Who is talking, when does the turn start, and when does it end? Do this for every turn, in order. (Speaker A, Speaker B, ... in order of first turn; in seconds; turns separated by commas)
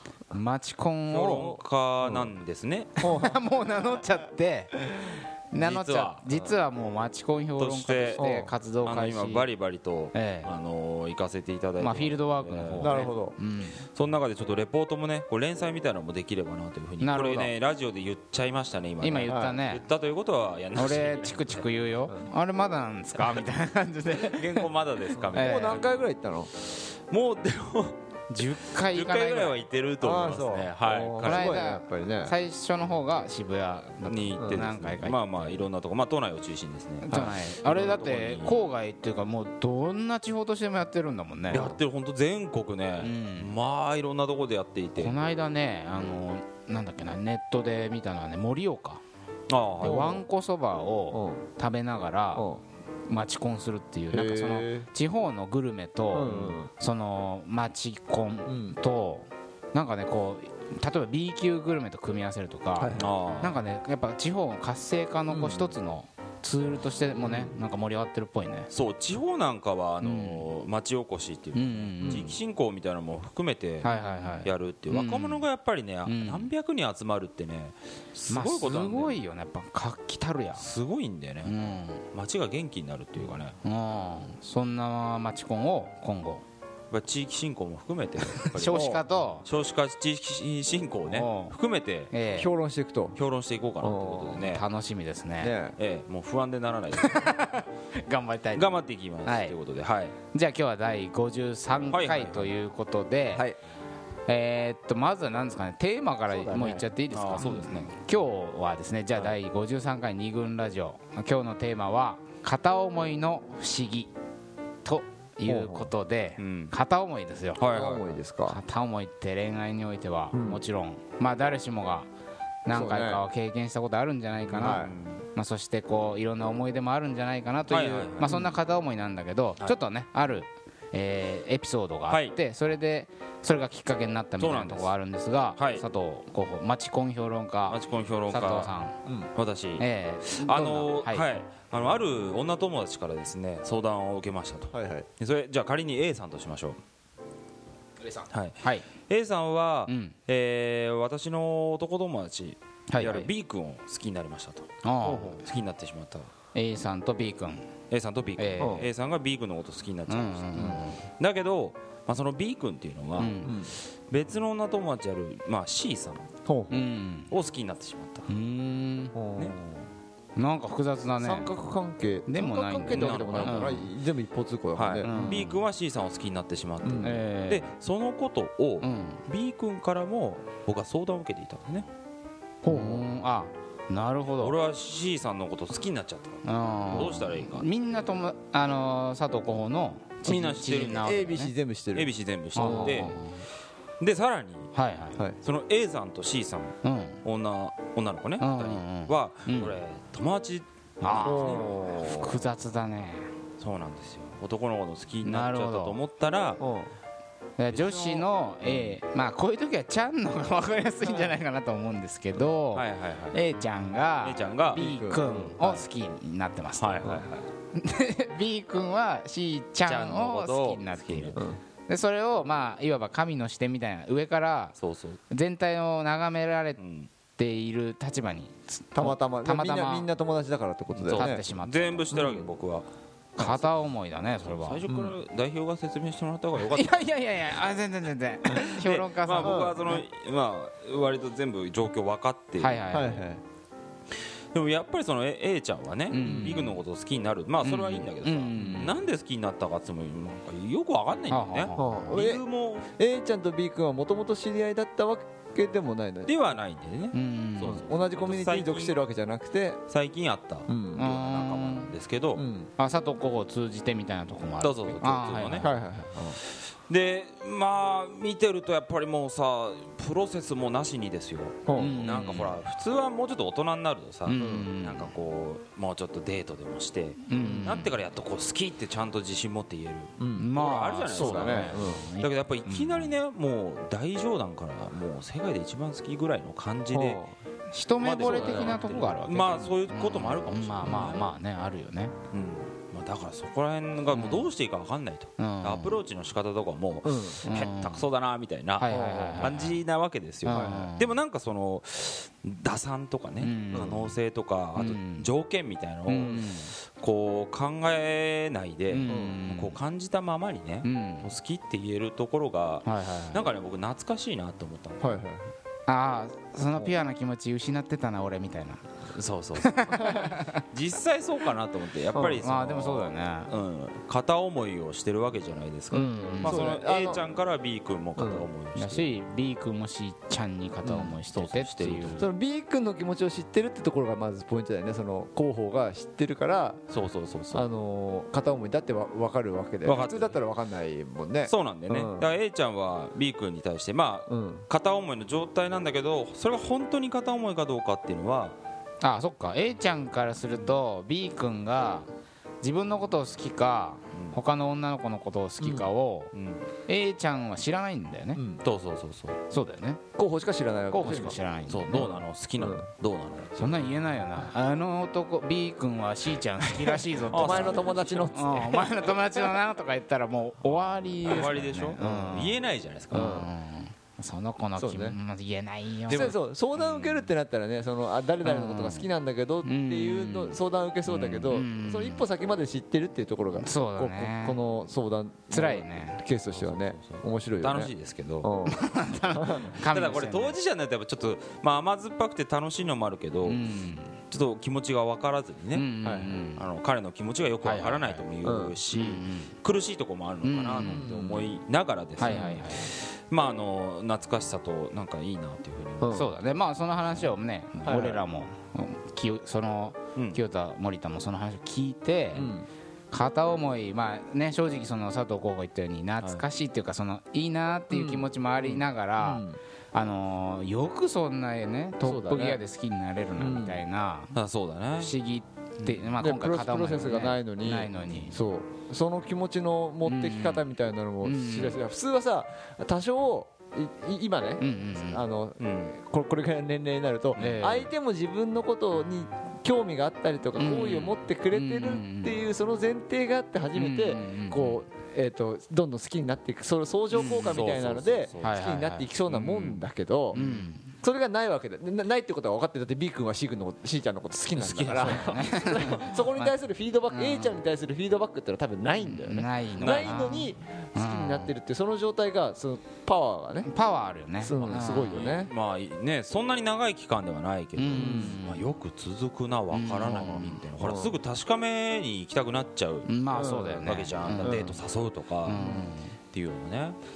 Speaker A: 0.3-1.5, Speaker B: 1.1-3.0, Speaker C: 1.4-2.3, Speaker A: 3.0-9.5, Speaker C: 3.0-3.4, Speaker B: 5.5-6.6, Speaker B: 7.6-8.2, Speaker C: 8.2-8.5, Speaker B: 8.8-13.1, Speaker A: 10.1-10.5, Speaker A: 11.8-13.8, Speaker C: 12.8-13.4, Speaker B: 13.9-21.7, Speaker A: 17.0-17.6, Speaker A: 19.0-19.8, Speaker C: 19.3-19.6, Speaker A: 20.8-24.7, Speaker B: 24.3-26.1, Speaker C: 25.2-26.5, Speaker A: 25.3-25.8, Speaker B: 26.6-31.6, Speaker A: 28.3-29.6, Speaker C: 30.0-32.4, Speaker A: 31.2-35.7, Speaker B: 34.1-38.6, Speaker C: 34.4-34.7, Speaker A: 37.0-41.8, Speaker B: 41.5-45.2, Speaker A: 43.0-43.5, Speaker A: 45.0-49.0, Speaker B: 49.5-50.2, Speaker A: 49.8-52.5, Speaker C: 49.8-50.2, Speaker C: 51.1-51.4, Speaker C: 52.4-52.6, Speaker A: 53.1-68.7, Speaker C: 54.1-54.9, Speaker C: 56.1-56.7, Speaker B: 56.2-56.6, Speaker C: 58.5-58.8, Speaker C: 62.8-63.1, Speaker B: 63.0-63.6, Speaker C: 65.3-65.8, Speaker B: 68.7-79.2, Speaker A: 70.0-70.5, Speaker A: 71.5-72.3, Speaker C: 72.0-72.3, Speaker A: 73.8-75.5, Speaker A: 76.0-76.5, Speaker A: 78.3-80.7, Speaker B: 80.5-83.6, Speaker A: 81.4-82.0, Speaker A: 83.6-86.4, Speaker B: 86.9-92.1, Speaker A: 88.4-89.5, Speaker C: 88.7-89.0, Speaker A: 91.1-91.5, Speaker A: 92.1-92.5, Speaker C: 92.3-93.2, Speaker B: 93.1-94.7, Speaker C: 93.8-94.5, Speaker A: 94.4-95.5, Speaker C: 95.4-95.8, Speaker B: 95.8-97.4, Speaker A: 97.0-99.5, Speaker B: 98.5-100.2, Speaker A: 100.3-103.5, Speaker B: 101.9-102.5, Speaker C: 103.3-103.6, Speaker A: 104.3-114.1, Speaker C: 106.3-106.9, Speaker B: 107.1-107.9, Speaker A: 114.8-117.7, Speaker C: 115.5-115.9, Speaker B: 116.4-116.7, Speaker B: 117.6-118.2, Speaker C: 117.7-118.6, Speaker A: 118.5-122.1, Speaker C: 120.3-120.6, Speaker A: 122.7-139.0, Speaker C: 122.7-123.2, Speaker B: 124.5-125.2, Speaker C: 124.6-124.9, Speaker B: 127.7-128.4, Speaker C: 128.2-128.6, Speaker B: 132.1-132.4, Speaker B: 134.4-134.9, Speaker B: 135.6-135.8, Speaker B: 137.7-138.7, Speaker B: 139.3-146.8, Speaker A: 139.8-141.3, Speaker C: 144.7-145.1, Speaker B: 148.3-154.7, Speaker A: 148.6-148.9, Speaker A: 149.9-150.2, Speaker A: 152.9-153.3, Speaker A: 154.8-155.4, Speaker C: 155.0-155.4, Speaker B: 155.2-156.3, Speaker A: 156.5-157.7, Speaker B: 157.9-166.8, Speaker A: 158.4-158.9, Speaker C: 158.6-158.9, Speaker A: 160.1-161.0, Speaker C: 160.6-160.8, Speaker A: 163.2-163.5, Speaker C: 163.4-163.7, Speaker C: 166.5-166.8, Speaker A: 166.7-167.3, Speaker B: 167.3-168.3, Speaker A: 168.3-169.2, Speaker C: 169.1-169.6, Speaker A: 170.4-171.5, Speaker C: 171.2-175.4, Speaker A: 172.3-173.9, Speaker B: 172.9-173.8, Speaker B: 174.8-181.9, Speaker A: 175.0-175.6, Speaker C: 176.8-177.2, Speaker A: 177.0-177.7, Speaker A: 178.8-179.2, Speaker C: 182.6-183.1, Speaker A: 182.6-184.6, Speaker B: 184.4-187.7, Speaker A: 186.4-191.5, Speaker B: 190.2-191.2, Speaker C: 190.2-193.2, Speaker B: 191.9-193.2, Speaker A: 192.6-193.4, Speaker B: 194.0-194.8, Speaker A: 194.7-195.2, Speaker B: 195.4-202.4, Speaker A: 196.8-197.2, Speaker A: 198.4-199.8, Speaker A: 201.0-203.3, Speaker C: 201.2-202.1, Speaker B: 203.6-206.6, Speaker A: 205.2-206.0, Speaker C: 206.6-206.9, Speaker A: 207.6-224.8, Speaker B: 207.7-208.9, Speaker B: 212.4-213.4, Speaker B: 214.2-214.8, Speaker C: 214.8-215.6, Speaker B: 216.8-217.5, Speaker B: 219.8-221.5, Speaker B: 224.8-225.2, Speaker A: 225.3-226.8, Speaker B: 226.8-227.1, Speaker A: 227.4-230.1, Speaker C: 228.9-231.4, Speaker B: 231.0-233.8, Speaker A: 231.1-232.4, Speaker A: 233.4-235.1, Speaker B: 234.5-237.0, Speaker A: 236.6-240.0, Speaker B: 238.5-242.8, Speaker C: 239.4-239.8, Speaker A: 242.6-243.2, Speaker C: 242.9-243.4, Speaker B: 244.5-252.9, Speaker A: 246.1-246.8, Speaker C: 246.2-246.6, Speaker A: 247.6-248.9, Speaker A: 251.3-252.2, Speaker C: 251.8-252.4, Speaker C: 253.0-256.3, Speaker B: 256.3-259.0, Speaker A: 257.1-257.9, Speaker C: 257.7-259.8, Speaker B: 259.9-262.4, Speaker C: 260.7-261.0, Speaker A: 261.0-261.9, Speaker C: 262.4-262.7, Speaker A: 262.8-265.7, Speaker B: 264.6-265.7, Speaker C: 265.6-266.4, Speaker B: 266.9-287.2, Speaker C: 271.7-271.9, Speaker A: 271.8-272.6, Speaker A: 274.3-275.1, Speaker C: 274.4-274.7, Speaker A: 277.3-277.9, Speaker C: 277.4-277.8, Speaker C: 280.2-280.5, Speaker A: 280.4-283.2, Speaker C: 281.1-282.1, Speaker C: 286.9-287.4, Speaker A: 287.7-292.1, Speaker B: 288.0-291.4, Speaker C: 288.2-288.8, Speaker C: 290.9-291.2, Speaker B: 292.3-315.2, Speaker A: 294.1-294.5, Speaker A: 295.4-296.0, Speaker C: 297.0-297.4, Speaker A: 297.4-298.1, Speaker A: 298.8-299.8, Speaker C: 298.9-299.5, Speaker A: 300.4-301.2, Speaker C: 300.5-300.9, Speaker A: 303.4-304.0, Speaker C: 303.7-304.1, Speaker A: 304.8-305.3, Speaker A: 306.1-306.7, Speaker A: 308.9-309.8, Speaker C: 309.1-309.4, Speaker A: 310.8-311.3, Speaker A: 312.8-313.5, Speaker C: 315.0-315.5, Speaker A: 315.9-318.9, Speaker B: 319.1-329.1, Speaker A: 319.6-320.6, Speaker C: 320.0-320.3, Speaker C: 322.1-322.5, Speaker A: 322.4-323.5, Speaker A: 325.9-326.6, Speaker C: 325.9-327.3, Speaker C: 328.2-328.5, Speaker A: 328.8-332.3, Speaker C: 330.8-331.2, Speaker B: 331.3-332.3, Speaker C: 332.2-336.8, Speaker B: 336.9-337.7, Speaker C: 337.5-342.3, Speaker B: 339.8-340.4, Speaker B: 341.5-348.6, Speaker C: 344.3-344.6, Speaker A: 349.0-352.1, Speaker A: 352.6-356.3, Speaker C: 355.6-355.9, Speaker B: 356.3-356.7, Speaker A: 356.9-358.4, Speaker C: 358.4-358.6, Speaker B: 358.6-359.4, Speaker A: 359.5-360.0, Speaker C: 360.2-361.4, Speaker A: 360.9-362.1, Speaker B: 361.0-363.9, Speaker C: 361.9-362.9, Speaker A: 363.6-372.6, Speaker C: 366.8-369.5, Speaker B: 367.3-368.3, Speaker B: 371.2-373.4, Speaker C: 372.0-372.4, Speaker A: 373.1-376.4, Speaker C: 373.1-373.5, Speaker C: 374.8-375.2, Speaker B: 376.1-377.3, Speaker C: 376.1-389.7, Speaker A: 378.4-379.1, Speaker A: 379.6-380.6, Speaker B: 381.1-381.6, Speaker A: 381.5-382.3, Speaker A: 383.6-384.6, Speaker A: 385.5-386.2, Speaker B: 386.4-388.5, Speaker A: 388.7-390.6, Speaker B: 389.9-393.6, Speaker A: 393.5-394.2, Speaker B: 394.3-395.9, Speaker A: 395.7-396.6, Speaker C: 396.0-396.4, Speaker B: 396.6-406.3, Speaker A: 397.6-398.3, Speaker C: 398.4-398.8, Speaker A: 398.9-399.5, Speaker A: 400.4-401.1, Speaker C: 400.8-401.5, Speaker A: 402.2-402.9, Speaker C: 406.0-406.3, Speaker A: 406.1-412.5, Speaker B: 407.0-408.2, Speaker C: 407.9-408.2, Speaker B: 410.1-410.4, Speaker C: 412.4-412.7, Speaker A: 413.1-424.4, Speaker C: 417.9-419.6, Speaker C: 422.0-422.6, Speaker C: 423.4-423.8, Speaker B: 424.3-425.1, Speaker A: 425.0-428.4, Speaker B: 425.8-426.2, Speaker C: 426.2-450.4, Speaker A: 430.0-430.7, Speaker A: 431.2-431.8, Speaker A: 434.6-435.2, Speaker B: 435.6-435.9, Speaker A: 437.4-437.9, Speaker B: 437.4-437.9, Speaker A: 440.6-442.4, Speaker A: 443.8-444.8, Speaker A: 447.1-447.7, Speaker B: 447.2-450.7, Speaker A: 448.4-449.1, Speaker A: 450.3-450.9, Speaker C: 451.0-463.7, Speaker A: 454.6-456.6, Speaker A: 457.1-457.6, Speaker A: 459.0-461.5, Speaker B: 459.8-460.4, Speaker A: 463.6-465.3, Speaker C: 464.4-465.5, Speaker B: 464.6-473.1, Speaker A: 467.8-468.7, Speaker C: 467.9-468.4, Speaker A: 469.7-470.6, Speaker C: 470.8-471.2, Speaker A: 473.1-474.8, Speaker C: 473.3-473.9, Speaker B: 473.9-475.6, Speaker C: 474.4-474.8, Speaker A: 475.4-476.1, Speaker C: 475.5-475.9, Speaker B: 476.3-477.0